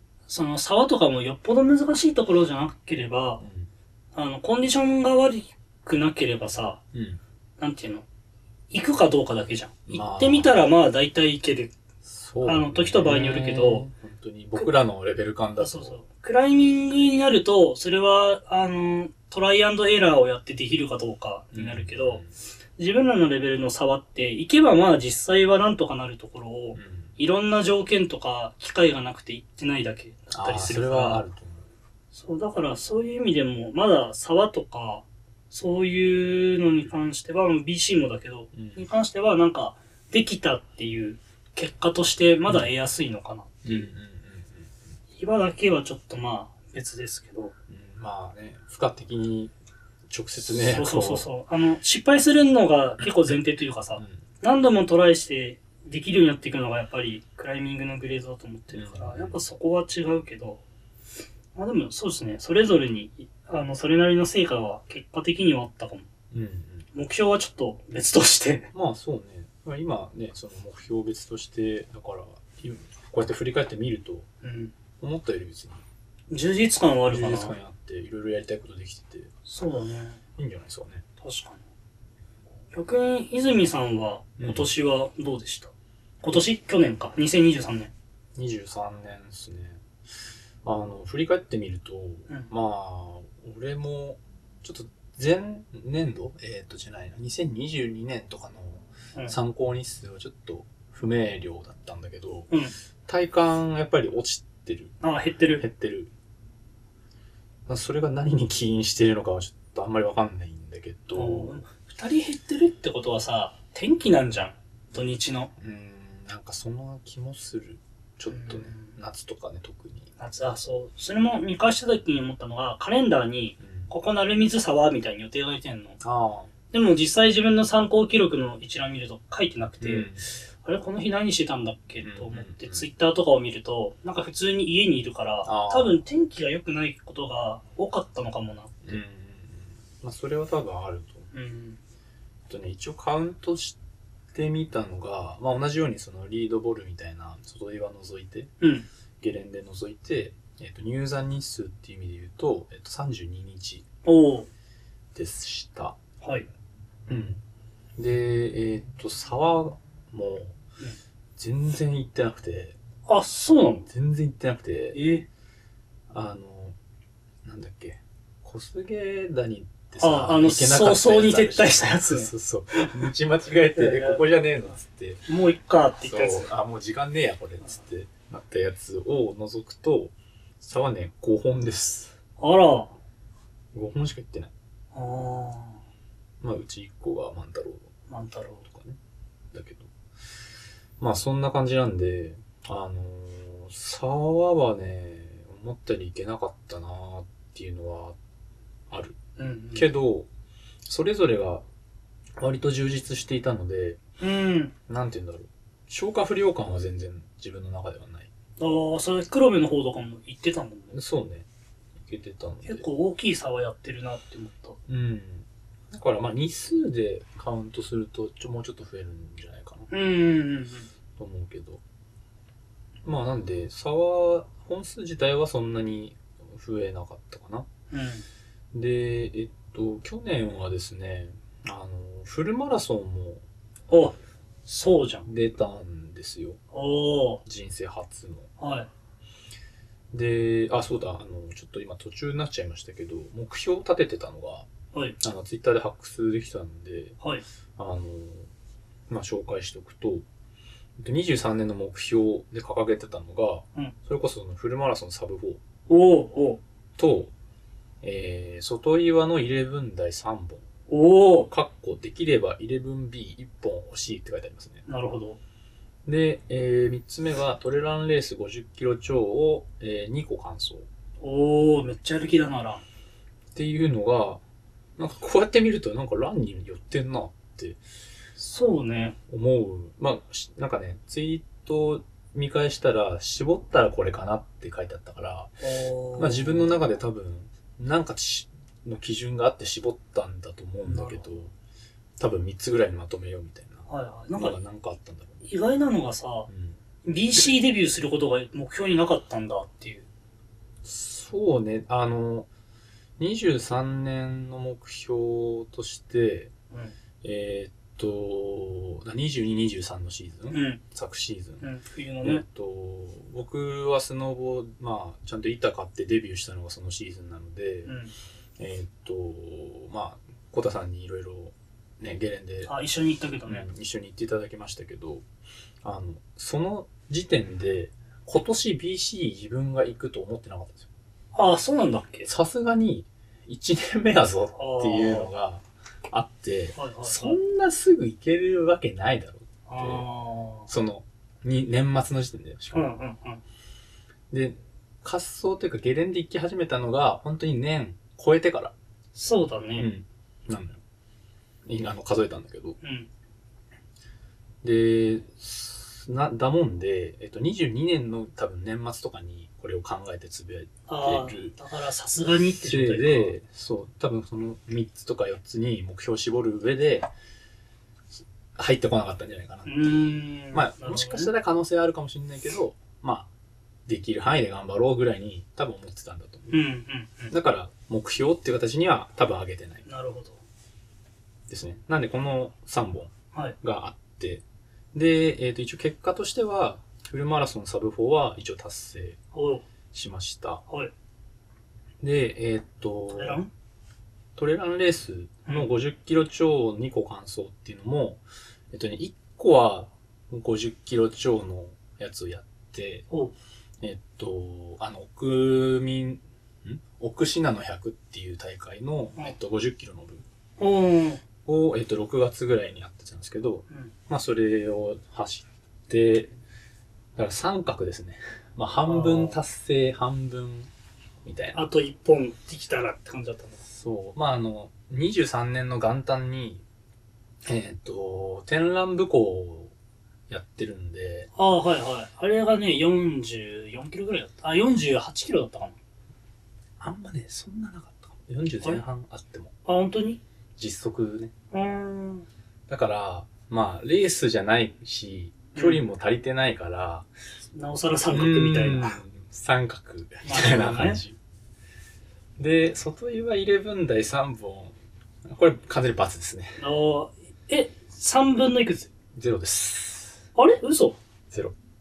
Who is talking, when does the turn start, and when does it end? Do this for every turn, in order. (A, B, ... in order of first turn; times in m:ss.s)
0:00.3-0:03.4 A
0:03.4-0:03.7 B
0:04.1-0:06.8 A
0:06.9-0:07.2 B
0:07.6-0:08.0 A
0:08.7-0:11.7 A
0:09.9-0:10.5 B
0:12.0-0:16.0 B
0:12.4-0:13.9 A
0:15.6-0:22.2 A
0:21.5-0:22.3 B
0:22.8-0:31.2 A
0:26.7-0:27.2 B
0:30.3-0:31.7 B
0:32.1-0:43.9 A
0:38.5-0:38.8 B
0:43.6-0:44.7 B
0:45.2-0:47.5 A
0:47.7-0:49.5 B
0:50.1-0:51.2 B
0:50.5-1:00.6 A
0:58.7-0:59.4 B
1:01.5-1:06.1 A
1:06.3-1:06.9 B
1:06.9-1:08.7 A
1:08.7-1:14.3 B
1:14.4-1:14.7 A
1:15.0-1:15.8 B
1:16.3-1:17.5 A
1:17.1-1:19.3 B
1:19.4-1:20.2 A
1:20.4-1:21.0 B
1:21.2-1:21.6 A
1:22.7-1:25.7 A
1:24.4-1:24.7 B
1:26.2-1:27.9 A
1:28.3-1:29.8 B
1:30.6-1:42.5 B
1:43.1-1:45.0 B
1:45.0-1:45.6 A
1:45.6-1:46.1 B
1:47.7-1:51.6 B
1:51.1-1:55.5 A
1:55.6-2:00.1 B
1:58.3-1:58.9 A
2:00.2-2:06.0 A
2:03.6-2:03.9 B
2:06.0-2:06.5 B
2:06.7-2:19.0 A
2:09.8-2:10.3 B
2:12.0-2:12.9 B
2:15.4-2:16.0 B
2:18.8-2:21.3 B
2:21.3-2:21.8 A
2:22.5-2:23.8 B
2:24.3-2:28.5 B
2:28.6-2:28.9 A
2:29.2-2:33.8 B
2:34.0-2:34.5 A
2:35.1-2:36.0 B
2:36.2-2:36.5 A
2:37.1-2:37.4 B
2:38.0-2:40.6 B
2:41.4-2:42.8 B
2:43.1-2:43.9 A
2:43.9-2:45.0 B
2:44.9-2:45.3 A
2:46.1-2:46.8 B
2:47.4-2:55.2 B
2:50.0-2:53.1 A
2:53.7-2:54.2 A
2:55.3-2:56.5 A
2:56.0-3:02.1 B
3:02.4-3:03.0 A
3:03.7-3:04.5 B
3:04.9-3:05.8 A
3:06.4-3:07.9 B
3:08.1-3:08.6 A
3:08.7-3:09.0 B
3:09.5-3:09.9 B
3:11.0-3:18.2 B
3:18.9-3:19.2 B
3:19.4-3:19.9 A
3:19.7-3:20.3 B
3:20.8-3:21.6 B
3:22.4-3:24.0 B
3:24.2-3:24.7 A
3:24.9-3:28.3 B
3:28.6-3:31.0 A
3:30.9-3:31.5 B
3:32.0-3:32.8 B
3:32.6-3:34.8 A
3:34.9-3:39.9 B
3:39.9-3:40.9 A
3:41.2-3:41.8 B
3:43.0-3:47.7 B
3:47.9-3:48.2 A
3:48.7-3:53.4 B
3:53.9-3:55.3 A
3:55.2-3:56.6 B
3:56.7-3:57.4 A
3:57.4-3:58.5 B
3:58.6-3:58.9 A
4:00.1-4:04.7 B
4:05.2-4:07.2 B
4:07.8-4:08.5 B
4:09.1-4:10.2 B
4:11.0-4:15.6 B
4:15.9-4:16.6 A
4:17.0-4:17.3 B
4:18.0-4:20.6 B
4:20.9-4:21.5 A
4:21.5-4:24.8 B
4:24.9-4:25.4 A
4:26.0-4:30.9 B
4:31.2-4:32.8 A
4:33.5-4:34.4 B
4:35.0-4:37.8 B
4:38.4-4:39.2 A
4:39.3-4:45.5 B
4:45.6-4:46.7 A
4:46.2-4:51.5 B
4:50.8-4:51.3 A
4:52.2-4:55.4 B
4:53.9-4:54.6 A
4:55.4-4:56.5 A
4:56.5-4:56.8 B
4:57.0-5:00.1 A
5:00.8-5:02.5 B
5:03.2-5:06.5 B
5:07.2-5:11.6 B
5:10.5-5:10.8 A
5:11.6-5:12.4 A
5:12.2-5:18.0 B
5:17.8-5:18.1 A
5:18.6-5:22.7 B
5:22.6-5:23.7 A
5:23.4-5:25.2 B
5:25.8-5:30.9 B
5:31.3-5:32.3 A
5:32.2-5:40.0 B
5:34.6-5:35.3 A
5:36.8-5:37.4 A
5:39.7-5:40.7 A
5:40.7-5:42.9 B
5:42.7-5:43.4 A
5:44.3-5:48.7 B
5:49.1-5:49.9 A
5:49.8-5:50.8 B
5:51.6-5:52.8 B
5:52.8-5:53.1 A
5:54.6-6:01.5 B
6:00.9-6:03.3 A
6:02.6-6:07.1 B
6:08.5-6:09.7 B
6:09.6-6:11.3 A
6:10.5-6:13.3 B
6:13.9-6:16.6 B
6:16.5-6:17.3 A
6:17.3-6:19.8 B
6:19.8-6:20.4 A
6:21.5-6:29.2 B
6:29.3-6:29.6 A
6:29.9-6:30.6 B
6:32.0-6:33.4 B
6:33.1-6:33.5 A
6:34.4-6:43.0 B
6:35.4-6:35.7 A
6:43.8-6:50.2 B
6:50.6-6:51.2 A
6:51.4-6:56.3 B
6:57.2-7:00.7 B
6:58.8-6:59.4 A
7:01.2-7:01.7 B
7:01.5-7:03.6 A
7:03.7-7:06.6 B
7:07.4-7:09.7 B
7:10.3-7:11.3 B
7:11.3-7:15.8 A
7:16.8-7:19.5 B
7:19.6-7:20.2 A
7:20.6-7:21.3 B
7:21.5-7:22.2 A
7:22.7-7:27.1 B
7:25.5-7:25.8 A
7:27.5-7:29.0 A
7:28.1-7:31.2 B
7:30.2-7:31.0 A
7:32.4-7:36.6 B
7:36.6-7:38.9 A
7:39.1-7:40.2 B
7:40.4-7:41.0 A
7:41.3-7:41.5 B